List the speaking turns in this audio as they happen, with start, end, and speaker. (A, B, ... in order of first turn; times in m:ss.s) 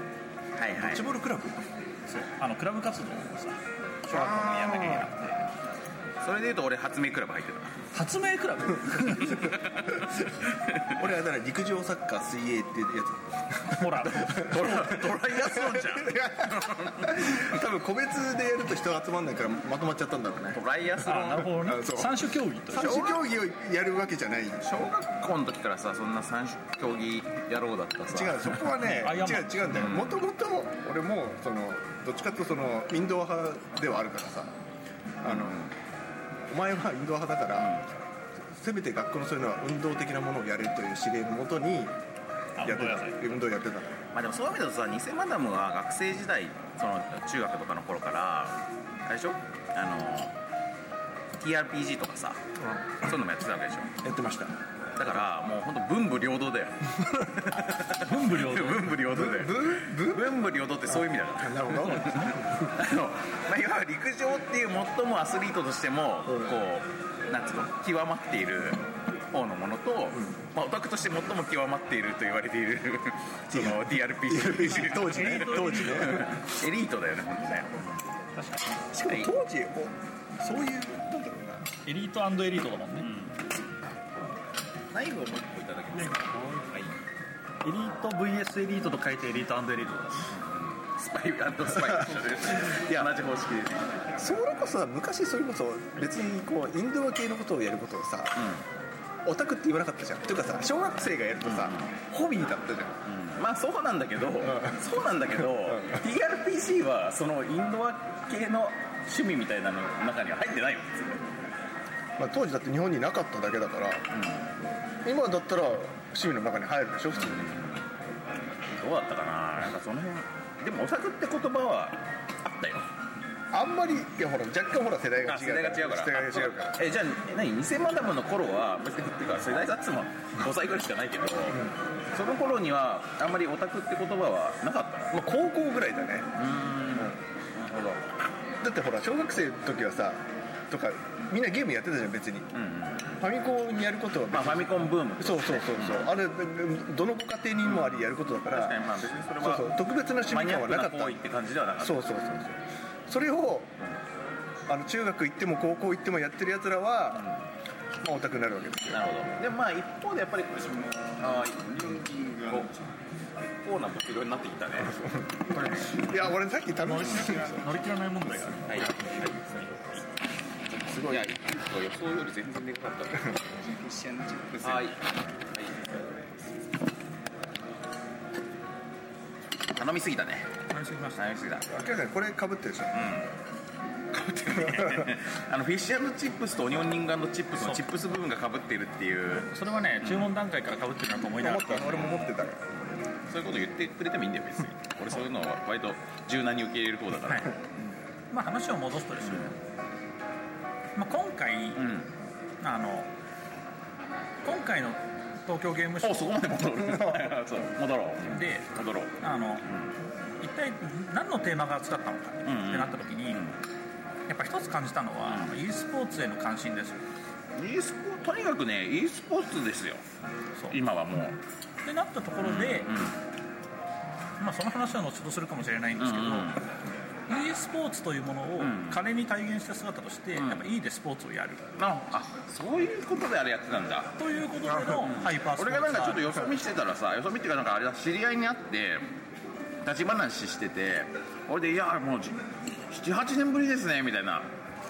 0:00.6-0:01.1 A
0:00.8-0:01.8 B
0:02.1-0:05.5 C
0:04.1-0:05.1 B
0:04.1-0:05.1 A
0:06.2-0:07.8 A
0:07.9-0:09.6 C
0:09.5-0:09.9 A
0:11.0-0:13.8 B
0:13.7-0:14.9 C
0:14.2-0:17.4 A
0:15.2-0:20.6 B
0:20.6-0:21.5 A
0:21.0-0:23.2 C
0:21.5-0:22.2 B
0:22.7-0:24.9 B
0:22.8-0:23.2 A
0:24.7-0:28.7 A
0:28.1-0:34.5 B
0:28.8-0:29.9 C
0:29.7-0:30.2 A
0:35.2-0:35.6 B
0:35.2-0:35.7 A
0:36.5-0:37.8 B
0:37.6-0:37.9 A
0:38.6-0:42.0 B
0:42.6-0:43.2 C
0:42.6-0:44.0 B
0:44.1-0:50.3 A
0:51.4-0:52.4 A
0:52.6-0:53.0 B
0:53.0-0:53.9 A
0:54.0-0:54.5 B
0:55.0-1:18.1 A
0:58.0-0:58.9 C
0:59.1-1:02.7 B
1:01.9-1:02.3 C
1:13.5-1:16.3 B
1:15.0-1:16.2 C
1:18.4-1:18.8 C
1:18.9-1:21.7 B
1:19.1-1:19.3 A
1:21.8-1:23.1 C
1:23.0-1:23.4 A
1:24.9-1:26.9 A
1:26.0-1:26.7 C
1:27.6-1:30.3 C
1:30.3-1:33.8 A
1:32.0-1:32.8 C
1:34.2-1:38.5 B
1:38.4-1:38.6 A
1:39.2-1:43.0 B
1:41.5-1:41.9 A
1:43.1-1:51.3 A
1:52.2-1:54.0 B
1:54.1-1:54.5 A
1:55.0-1:57.5 B
1:57.3-1:57.9 A
1:58.7-2:02.9 A
2:03.5-2:06.8 B
2:05.3-2:15.1 A
2:15.1-2:16.4 B
2:16.4-2:18.0 A
2:18.6-2:22.5 B
2:22.5-2:23.2 A
2:23.2-2:28.8 B
2:24.3-2:26.1 A
2:27.6-2:29.7 A
2:29.4-2:31.2 B
2:30.3-2:32.1 A
2:31.8-2:33.7 B
2:34.7-2:37.3 B
2:38.0-2:39.0 B
2:38.9-2:45.0 A
2:45.0-2:47.5 B
2:45.6-2:45.9 C
2:46.8-2:49.4 C
2:48.7-2:50.0 A
2:50.7-2:56.4 A
2:59.7-3:00.5 A
3:00.7-3:01.2 C
3:01.2-3:01.8 A
3:01.7-3:03.1 B
3:02.9-3:03.3 A
3:04.1-3:05.1 B
3:04.5-3:09.5 A
3:09.4-3:12.1 C
3:10.0-3:10.3 A
3:11.4-3:13.0 B
3:11.9-3:12.3 A
3:13.3-3:17.7 A
3:18.3-3:19.6 C
3:21.0-3:21.8 C
3:21.8-3:22.1 A
3:22.6-3:23.1 C
3:24.4-3:26.3 C
3:26.0-3:29.9 A
3:28.3-3:28.7 C
3:29.2-3:29.7 C
3:30.4-3:33.4 C
3:32.5-3:33.6 A
3:34.3-3:37.0 C
3:35.3-3:35.5 A
3:37.6-3:40.0 A
3:40.7-3:41.4 A
3:41.8-3:42.9 C
3:42.4-3:43.2 A
3:44.4-3:46.5 C
3:46.0-3:46.6 A
3:47.3-3:51.7 C
3:48.6-3:49.0 A
3:50.4-3:50.6 A
3:51.8-3:54.1 A
3:54.2-3:56.4 C
3:54.8-3:59.1 A
3:59.8-4:04.5 A